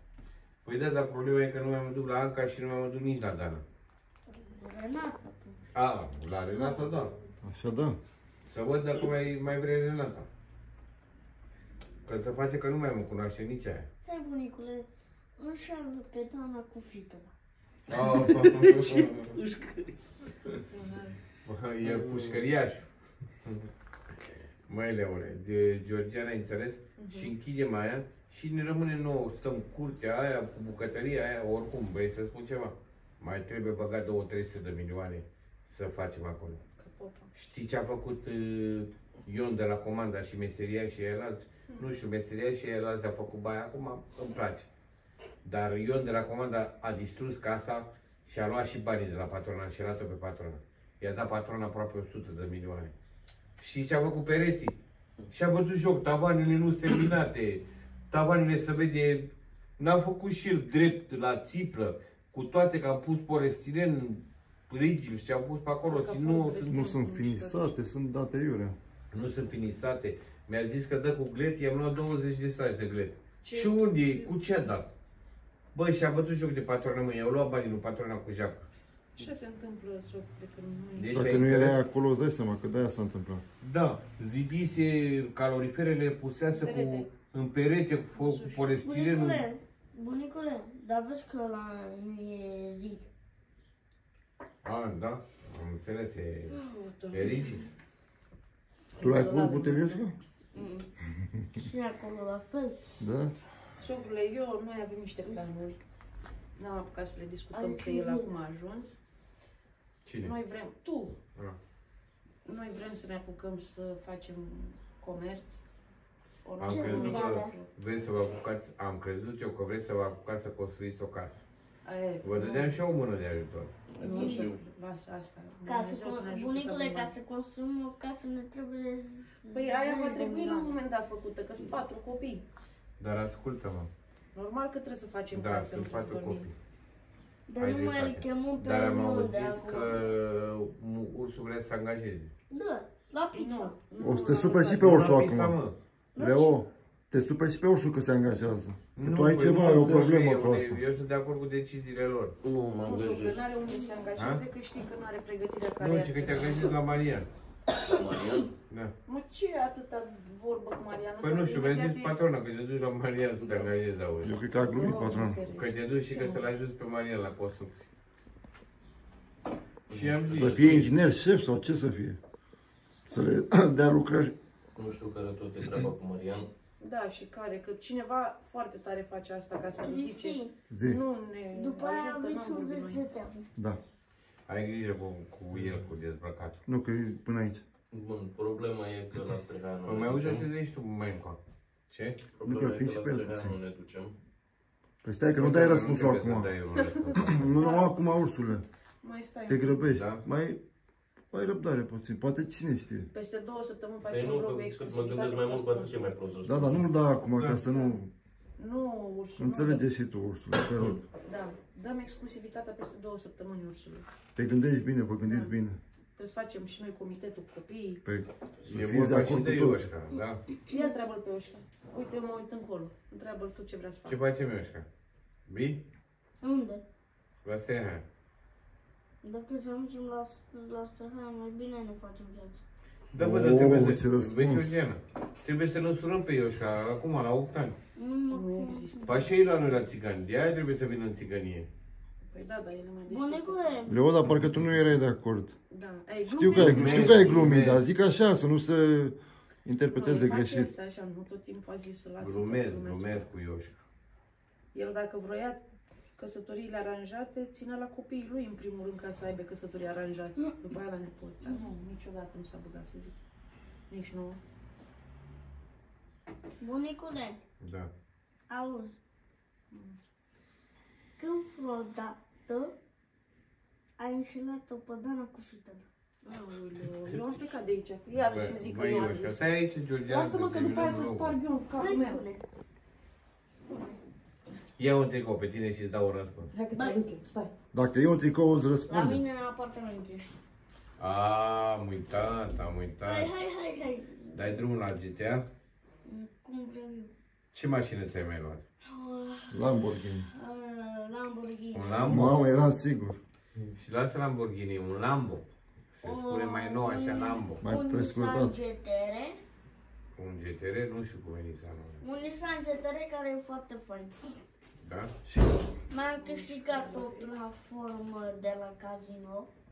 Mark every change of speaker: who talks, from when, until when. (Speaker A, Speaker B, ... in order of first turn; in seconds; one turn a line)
Speaker A: 0.6-3.6
Speaker B: 4.3-5.6
Speaker A: 5.7-7.1
Speaker B: 6.5-7.3
Speaker C: 7.4-8.0
Speaker A: 8.5-10.3
Speaker A: 12.1-13.9
Speaker B: 14.1-17.3
Speaker A: 17.9-19.4
Speaker D: 17.9-20.5
Speaker E: 20.7-21.2
Speaker A: 21.4-23.7
Speaker D: 21.8-22.4
Speaker A: 24.7-36.6
Speaker E: 26.9-27.3
Speaker E: 36.8-37.3
Speaker A: 37.3-44.7
Speaker A: 45.4-52.9
Speaker A: 53.6-54.8
Speaker A: 55.3-66.8
Speaker E: 65.8-67.7
Speaker C: 66.7-68.8
Speaker A: 69.1-74.9
Speaker E: 73.4-74.4
Speaker A: 75.7-78.7
Speaker E: 79.2-81.4
Speaker A: 80.9-81.8
Speaker C: 81.1-83.4
Speaker A: 83.6-89.4
Speaker E: 86.5-87.1
Speaker E: 88.1-88.8
Speaker B: 88.8-93.1
Speaker A: 94.6-97.7
Speaker E: 96.5-97.7
Speaker E: 98.9-100.0
Speaker C: 99.0-100.2
Speaker E: 100.5-100.9
Speaker C: 101.2-101.5
Speaker B: 101.5-102.8
Speaker C: 103.0-103.3
Speaker E: 103.8-105.8
Speaker E: 106.5-109.0
Speaker B: 107.5-108.3
Speaker A: 110.0-110.3
Speaker E: 110.2-111.2
Speaker E: 112.4-115.6
Speaker E: 116.4-117.7
Speaker B: 116.6-117.5
Speaker A: 116.6-121.4
Speaker E: 121.8-122.8
Speaker A: 122.2-123.8
Speaker D: 123.9-124.6
Speaker E: 124.0-127.1
Speaker B: 124.0-124.5
Speaker B: 125.6-130.8
Speaker E: 129.5-132.4
Speaker A: 133.0-133.9
Speaker E: 134.3-136.5
Speaker A: 135.3-136.5
Speaker B: 137.5-139.9
Speaker A: 137.6-142.3
Speaker B: 142.5-143.8
Speaker E: 143.3-145.0
Speaker C: 144.0-145.6
Speaker A: 144.7-145.8
Speaker B: 146.1-146.6
Speaker C: 146.1-150.8
Speaker A: 148.9-152.3
Speaker D: 152.4-153.5
Speaker E: 152.8-156.7
Speaker A: 154.2-154.4
Speaker A: 155.8-157.3
Speaker D: 157.8-158.5
Speaker E: 159.1-162.1
Speaker A: 161.2-164.4
Speaker C: 164.2-165.4
Speaker E: 164.6-166.5
Speaker A: 165.5-167.9
Speaker A: 169.9-170.9
Speaker D: 169.9-170.9
Speaker C: 170.3-172.2
Speaker C: 173.1-174.3
Speaker D: 174.7-176.5
Speaker E: 176.8-183.1
Speaker B: 179.8-180.5
Speaker C: 180.7-181.0
Speaker B: 181.5-183.5
Speaker C: 183.6-183.8
Speaker A: 184.5-186.6
Speaker C: 186.7-187.6
Speaker D: 187.9-190.5
Speaker A: 189.8-192.2
Speaker D: 192.3-194.1
Speaker C: 192.4-193.5
Speaker C: 195.0-196.5
Speaker A: 195.3-197.5
Speaker E: 196.8-197.8
Speaker C: 197.1-198.6
Speaker E: 199.0-199.9
Speaker C: 199.5-200.6
Speaker A: 199.9-200.2
Speaker C: 201.3-203.1
Speaker E: 203.1-206.0
Speaker D: 204.1-206.9
Speaker C: 206.4-208.1
Speaker E: 208.6-209.8
Speaker C: 209.4-211.0
Speaker E: 211.2-214.1
Speaker C: 214.3-215.8
Speaker E: 215.3-215.5
Speaker E: 216.2-218.0
Speaker C: 218.0-219.9
Speaker A: 218.6-220.4
Speaker E: 220.7-224.2
Speaker A: 224.1-224.9
Speaker A: 225.4-225.8
Speaker B: 226.4-226.8
Speaker A: 227.4-228.0
Speaker B: 229.2-232.6
Speaker A: 233.1-237.8
Speaker C: 233.1-234.8
Speaker B: 237.9-239.2
Speaker E: 238.3-239.3
Speaker A: 239.1-241.7
Speaker E: 242.3-243.9
Speaker B: 243.1-244.0
Speaker C: 243.9-245.6
Speaker E: 245.7-247.5
Speaker C: 246.3-250.7
Speaker A: 246.4-247.8
Speaker E: 249.9-253.3
Speaker A: 252.2-253.8
Speaker E: 254.7-255.6
Speaker E: 256.1-263.1
Speaker E: 263.9-264.4
Speaker B: 266.6-267.4
Speaker A: 267.6-267.9
Speaker B: 268.5-268.9
Speaker E: 269.7-270.0
Speaker B: 271.2-272.7
Speaker B: 274.0-277.2
Speaker E: 276.9-279.4
Speaker A: 278.2-281.4
Speaker E: 280.1-282.2
Speaker B: 281.8-282.4
Speaker B: 283.6-284.0
Speaker A: 284.8-286.5
Speaker E: 286.5-287.5
Speaker B: 286.7-287.0
Speaker C: 287.7-289.2
Speaker B: 288.9-290.3
Speaker A: 291.0-293.3
Speaker B: 293.0-294.4
Speaker A: 294.3-295.5
Speaker B: 296.0-297.1
Speaker A: 297.5-298.6
Speaker B: 298.8-302.4
Speaker C: 299.5-300.3
Speaker A: 301.7-302.4
Speaker C: 302.0-303.2
Speaker A: 303.8-307.6
Speaker B: 306.0-309.4
Speaker C: 307.6-308.6
Speaker A: 310.1-312.1
Speaker B: 312.0-314.1
Speaker A: 314.8-315.1
Speaker C: 315.2-315.6
Speaker B: 315.9-319.5
Speaker E: 316.2-317.3